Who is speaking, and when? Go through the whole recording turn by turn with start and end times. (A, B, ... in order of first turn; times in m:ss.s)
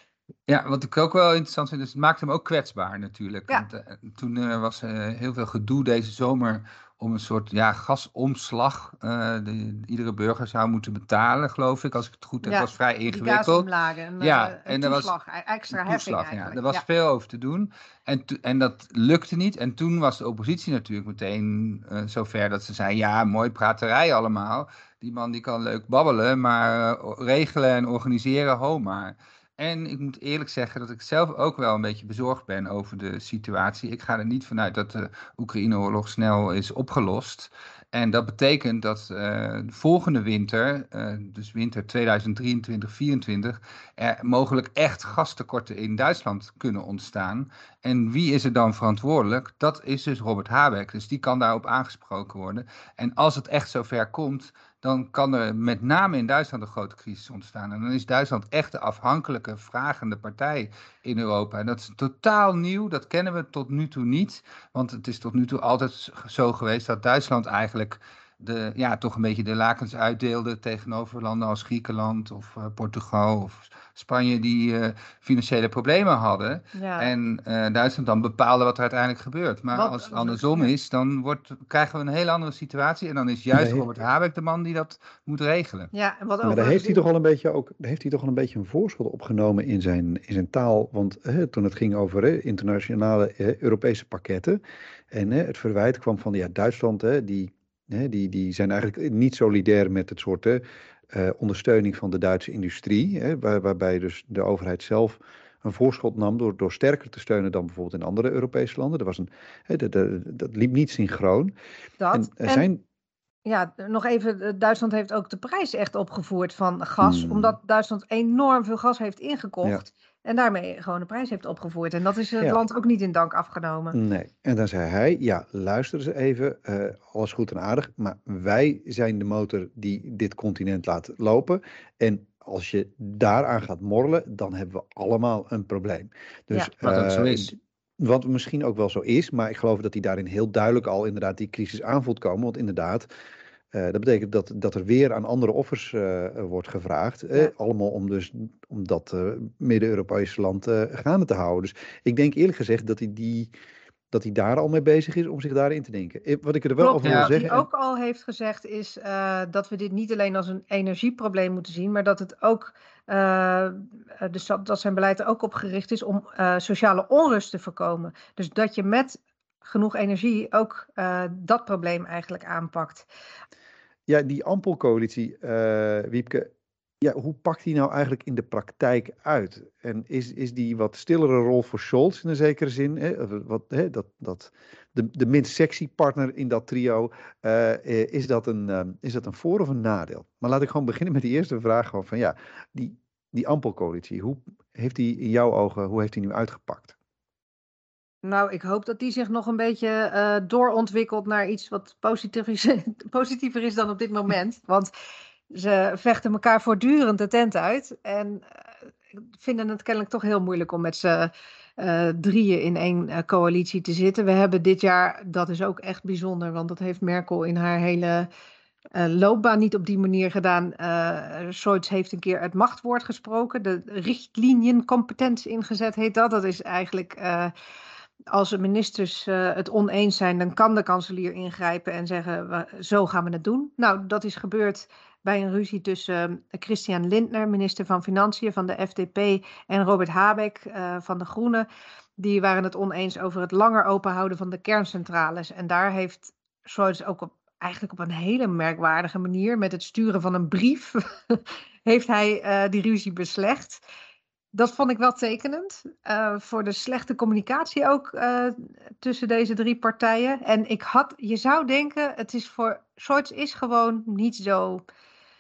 0:00.5-0:13.7 A
0:12.4-0:16.8 B
0:14.2-0:15.1 A
0:15.7-1:25.9 A
1:16.8-1:17.1 B
1:19.7-1:20.7 B
1:23.5-1:23.9 C
1:25.9-1:27.1 B
1:26.4-1:34.6 C
1:35.1-1:51.5 C
1:52.0-1:52.7 B
1:52.1-1:52.8 C
1:53.5-2:04.0 B
1:57.0-1:57.6 C
2:03.9-2:23.1 C
2:16.8-2:17.5 A
2:23.7-2:33.5 C
2:34.1-2:37.6 C
2:36.8-2:53.1 B
2:37.0-2:37.5 A
2:54.1-2:56.5 C
2:57.0-3:16.9 C
3:18.2-3:24.9 B
3:25.5-3:28.4 B
3:29.2-3:38.3 B
3:39.0-3:47.5 B
3:48.3-4:01.7 B
4:02.2-4:13.8 B
4:14.5-4:24.8 B